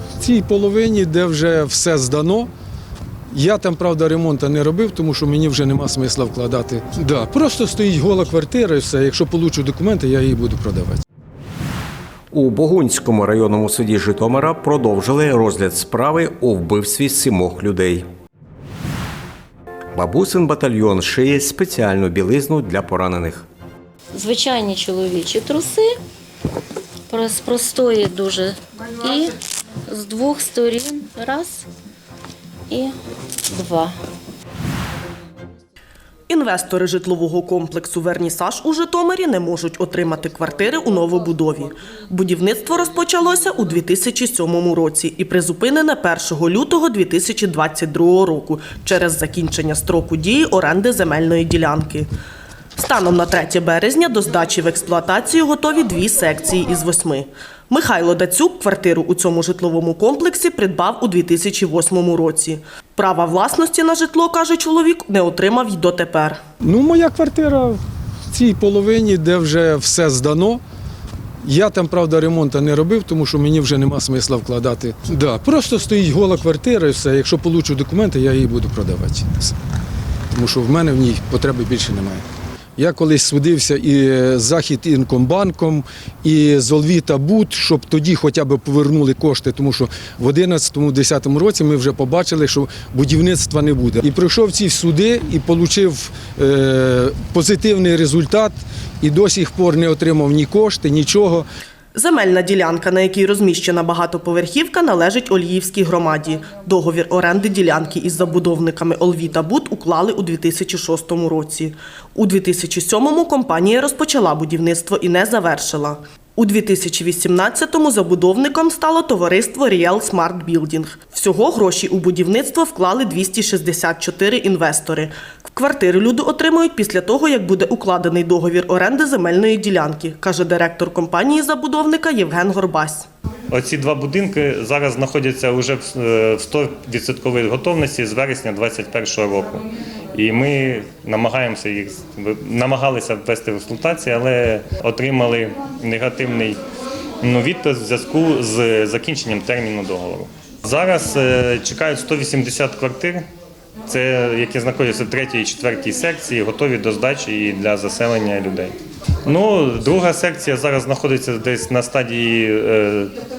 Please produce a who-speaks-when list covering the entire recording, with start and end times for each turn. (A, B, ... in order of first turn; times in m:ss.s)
0:00.2-0:02.5 A
0:03.3-0:11.0 A
0:12.3-0:18.0 B
0:19.9-0:23.4 B
0:24.1-0:25.9 C
0:27.1-0:29.3 C
0:29.9-0:31.6 C
0:33.5-0:33.9 C
0:36.3-0:52.1 D
0:52.8-1:06.4 D
1:06.6-1:10.6 A
1:11.4-1:19.6 A
1:20.3-1:22.2 A
1:22.8-1:41.4 A
1:41.9-2:13.1 D
2:13.5-2:19.6 E
2:20.2-2:26.6 E
2:27.3-2:33.2 E
2:33.9-2:38.7 E
2:39.3-2:43.1 E